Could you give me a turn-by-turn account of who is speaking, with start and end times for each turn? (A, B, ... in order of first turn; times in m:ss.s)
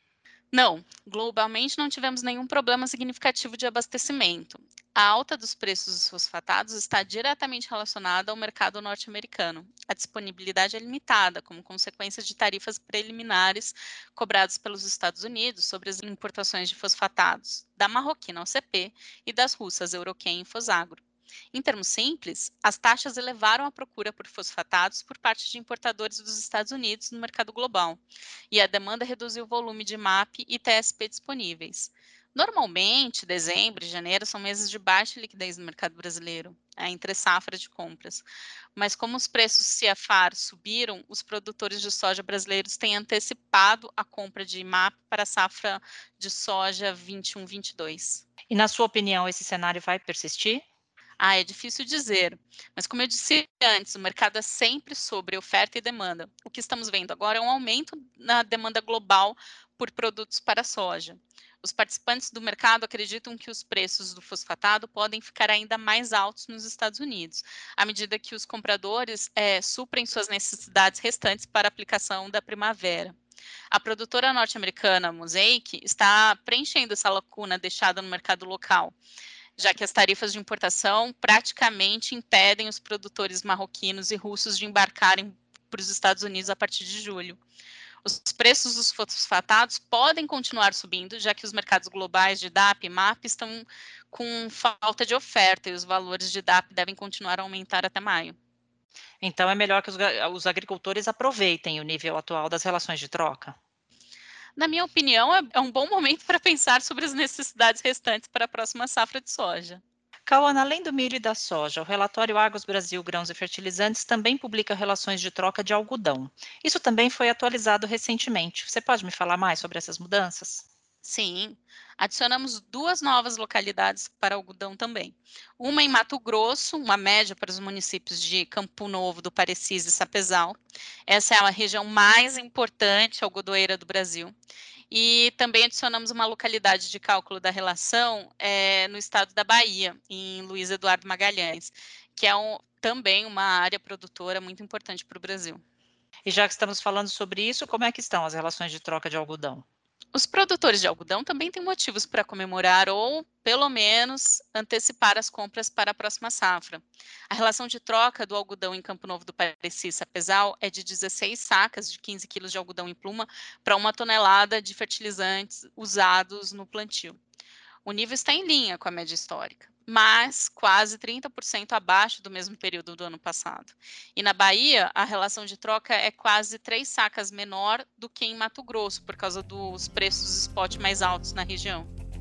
0:00.5-0:21.0 A
0:21.5-0:48.2 A
0:48.5-0:50.6 B
0:51.2-1:13.2 A
1:13.7-1:18.9 A
1:19.6-1:27.4 A
1:28.0-1:38.4 A
1:39.2-1:43.6 B
1:44.6-1:49.8 A
1:50.2-2:00.6 B
2:01.0-2:14.3 A
2:14.9-2:25.6 A
2:26.2-2:29.6 B
2:30.1-2:47.2 A
2:47.8-3:01.9 A